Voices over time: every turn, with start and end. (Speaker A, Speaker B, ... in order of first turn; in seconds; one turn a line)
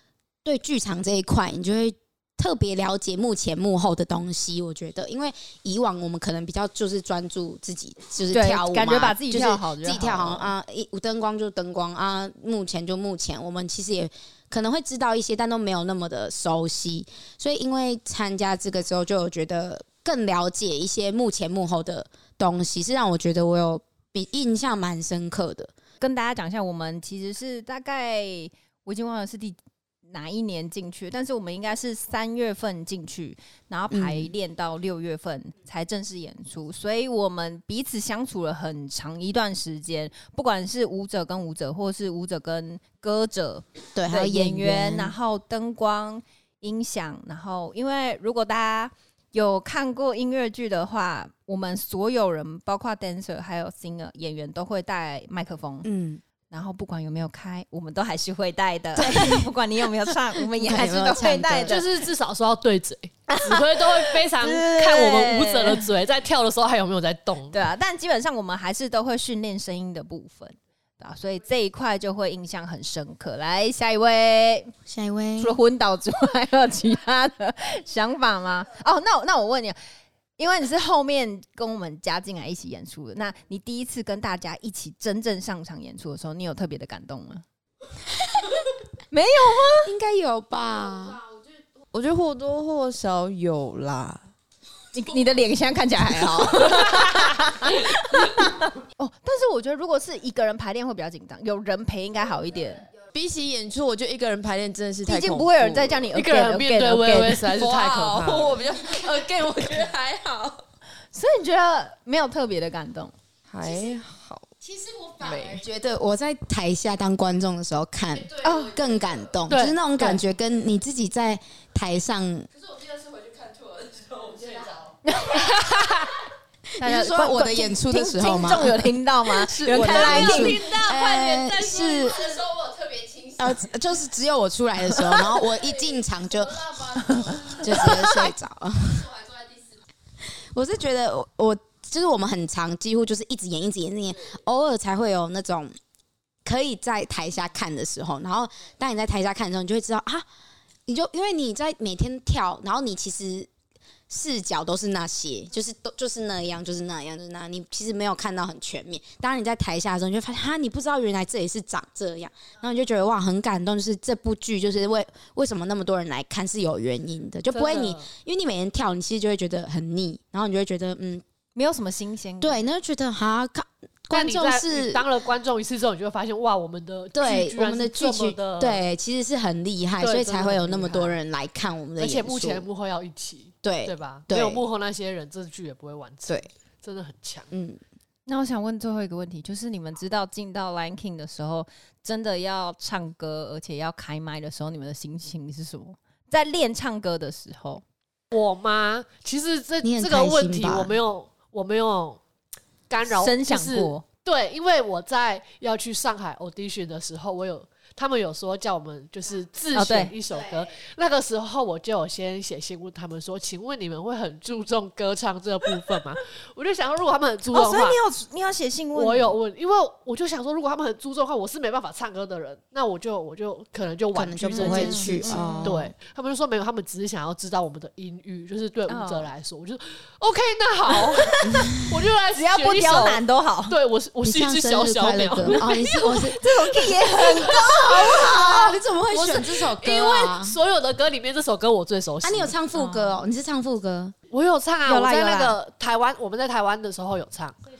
Speaker A: 0.4-25.7
Speaker B: 8.3-10.5
Speaker B: 26.0-55.9
Speaker A: 33.9-34.3
Speaker A: 44.0-45.1
Speaker A: 55.8-56.2
Speaker B: 56.5-61.8
Speaker A: 59.0-59.5
Speaker A: 60.4-61.8
Speaker C: 61.6-67.6
Speaker B: 63.3-65.8
Speaker B: 67.5-74.7
Speaker A: 74.9-75.6
Speaker B: 75.4-79.8
Speaker B: 80.4-87.4
Speaker B: 89.1-89.9
Speaker A: 89.8-91.2
Speaker D: 91.9-94.2
Speaker B: 94.9-102.8
Speaker D: 103.1-106.0
Speaker B: 105.0-107.4
Speaker C: 106.1-108.6
Speaker D: 107.4-110.6
Speaker B: 111.1-113.1
Speaker D: 113.5-114.5
Speaker A: 114.7-122.5
Speaker C: 119.5-120.2
Speaker B: 125.0-126.1
Speaker C: 125.3-126.0
Speaker B: 126.8-130.7
Speaker A: 126.8-132.5
Speaker C: 129.7-132.1
Speaker A: 133.4-139.2
Speaker B: 137.2-138.3
Speaker A: 140.3-145.7
Speaker A: 146.4-150.2
Speaker A: 150.9-153.5
Speaker A: 154.1-171.2
Speaker C: 167.5-168.1
Speaker B: 171.5-172.6
Speaker A: 172.4-175.0
Speaker C: 174.1-178.8
Speaker A: 177.1-182.7
Speaker C: 180.0-181.2
Speaker C: 182.0-187.5
Speaker A: 183.6-184.6
Speaker A: 187.5-187.8
Speaker B: 188.3-197.8
Speaker C: 198.3-202.2
Speaker A: 199.8-201.0
Speaker C: 202.9-218.0
Speaker B: 203.1-204.0
Speaker B: 209.7-210.1
Speaker B: 217.5-219.3
Speaker C: 218.9-242.5
Speaker A: 224.1-225.9
Speaker B: 224.5-225.8
Speaker B: 228.9-229.3
Speaker B: 231.3-231.7
Speaker A: 231.5-231.8
Speaker B: 232.3-233.7
Speaker A: 234.2-236.4
Speaker B: 236.1-238.3
Speaker A: 237.4-240.6
Speaker A: 242.2-244.1
Speaker B: 242.7-243.2
Speaker C: 244.3-247.5
Speaker B: 244.9-245.6